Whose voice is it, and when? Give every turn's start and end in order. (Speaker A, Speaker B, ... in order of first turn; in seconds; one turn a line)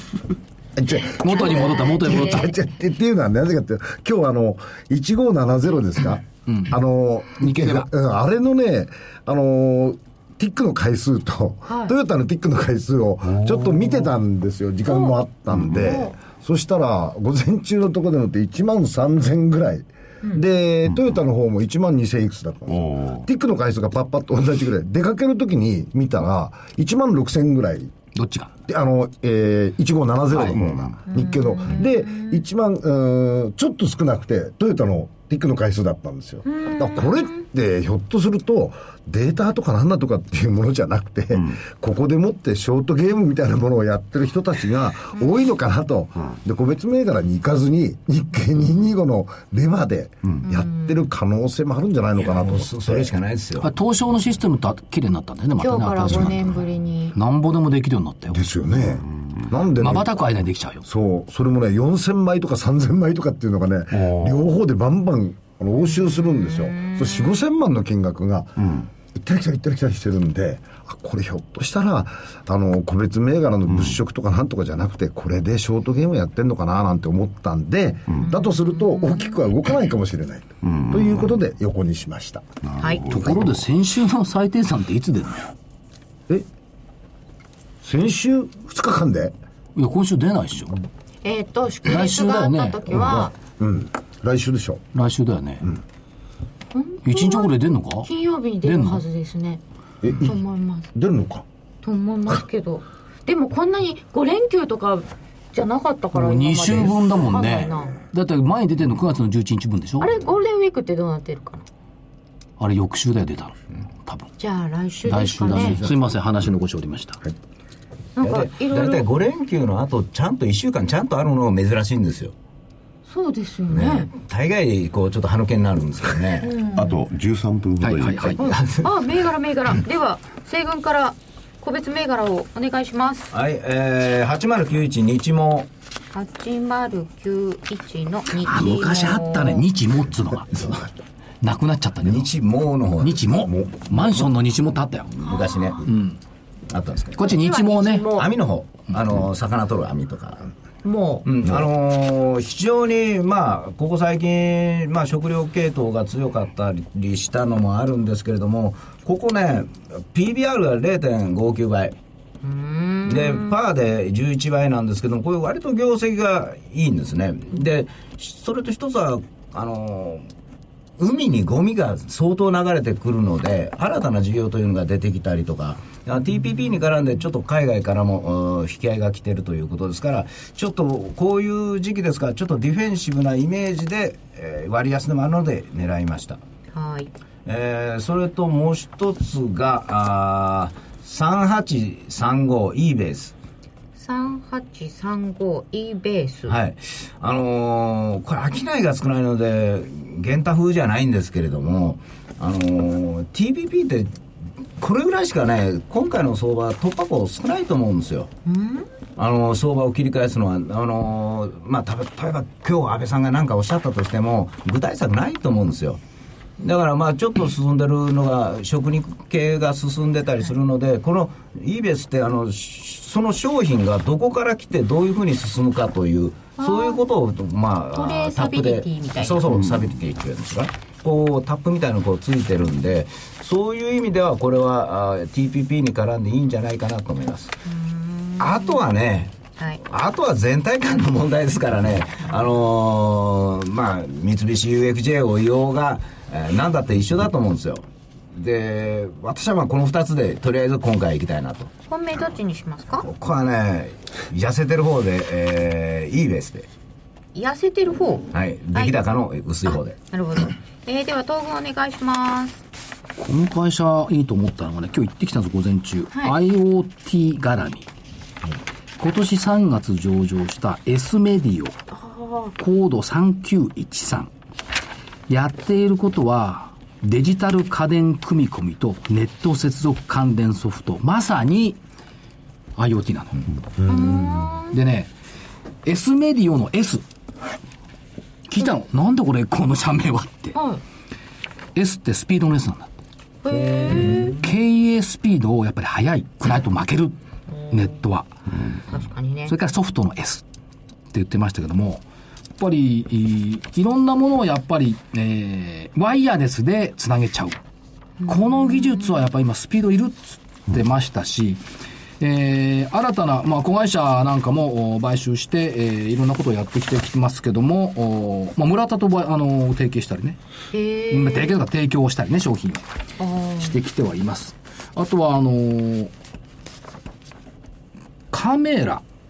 Speaker A: 0.8-27.9
Speaker B: 1.1-2.5
Speaker C: 1.2-2.5
Speaker C: 6.5-6.8
Speaker C: 7.4-7.9
Speaker B: 11.7-11.9
Speaker D: 13.3-14.1
Speaker B: 14.9-15.2
Speaker D: 15.5-15.8
Speaker B: 15.7-16.1
Speaker D: 20.9-21.1
Speaker D: 22.7-23.2
Speaker C: 28.1-28.5
Speaker A: 28.7-53.1
Speaker D: 30.4-31.0
Speaker B: 31.1-32.4
Speaker B: 36.5-37.4
Speaker B: 50.4-51.0
Speaker E: 52.2-53.7
Speaker C: 53.6-56.5
Speaker B: 55.6-57.1
Speaker C: 57.1-58.4
Speaker A: 58.3-60.1
Speaker D: 58.7-59.5
Speaker C: 59.8-60.8
Speaker A: 60.8-82.5
Speaker D: 63.9-64.4
Speaker B: 65.8-67.4
Speaker D: 68.6-68.9
Speaker D: 73.7-74.0
Speaker B: 78.2-79.4
Speaker D: 80.6-81.4
Speaker D: 82.6-83.6
Speaker B: 82.8-83.1
Speaker C: 83.1-85.5
Speaker A: 87.8-89.3
Speaker C: 89.8-90.8
Speaker B: 91.2-93.3
Speaker C: 91.8-93.0
Speaker A: 92.9-94.8
Speaker C: 94.9-95.7
Speaker B: 96.7-99.6
Speaker C: 97.0-98.1
Speaker C: 98.6-99.0
Speaker A: 100.0-100.4
Speaker B: 100.2-100.9
Speaker A: 100.9-101.4
Speaker B: 101.8-108.0
Speaker C: 106.1-110.1
Speaker B: 110.0-111.6
Speaker C: 112.6-114.3
Speaker B: 114.4-115.8
Speaker C: 115.0-117.2
Speaker A: 115.6-115.9
Speaker B: 118.2-119.1
Speaker E: 118.2-122.3
Speaker B: 123.1-124.1
Speaker E: 123.7-126.5
Speaker B: 126.4-127.0
Speaker D: 126.7-128.5
Speaker C: 127.8-128.4
Speaker E: 128.4-128.9
Speaker B: 128.8-133.3
Speaker E: 133.3-135.7
Speaker B: 136.1-139.6
Speaker C: 138.4-140.9
Speaker C: 141.4-142.3
Speaker E: 142.0-143.5
Speaker C: 143.0-145.1
Speaker E: 145.1-145.9
Speaker B: 145.2-145.8
Speaker C: 145.8-146.2
Speaker E: 146.7-147.3
Speaker C: 147.2-148.1
Speaker B: 147.2-148.3
Speaker E: 148.1-150.5
Speaker B: 150.8-151.3
Speaker E: 151.2-161.9
Speaker B: 162.4-163.6
Speaker E: 163.0-170.3
Speaker E: 171.0-186.4
Speaker B: 186.7-187.1
Speaker E: 187.4-193.3
Speaker B: 193.9-196.6
Speaker E: 196.5-204.1
Speaker E: 204.8-208.3
Speaker B: 208.4-208.9
Speaker E: 209.2-216.0
Speaker E: 216.6-237.6
Speaker B: 226.6-227.0
Speaker B: 227.9-229.5
Speaker B: 237.7-238.8
Speaker E: 238.4-251.7
Speaker B: 251.9-253.1
Speaker E: 253.0-256.7
Speaker B: 257.3-259.1
Speaker E: 258.3-260.0
Speaker B: 259.6-262.6
Speaker C: 263.2-267.9
Speaker C: 269.0-271.8
Speaker B: 271.9-272.5
Speaker C: 272.6-274.3
Speaker C: 275.3-281.8
Speaker C: 282.8-283.4
Speaker A: 283.8-284.5
Speaker B: 283.8-284.8
Speaker C: 284.7-285.1
Speaker C: 285.8-287.0
Speaker C: 288.5-290.6
Speaker B: 290.5-290.8
Speaker C: 291.7-292.9
Speaker B: 293.4-294.5
Speaker C: 294.1-297.2
Speaker B: 297.5-298.0
Speaker C: 297.7-298.3
Speaker B: 298.9-299.5
Speaker C: 299.5-300.4
Speaker C: 301.1-302.0
Speaker C: 302.6-307.6
Speaker B: 308.2-309.2
Speaker C: 308.2-311.6
Speaker C: 312.2-320.4
Speaker B: 320.7-321.6
Speaker C: 321.1-322.8
Speaker B: 323.2-323.7
Speaker C: 323.6-326.1
Speaker C: 328.3-329.0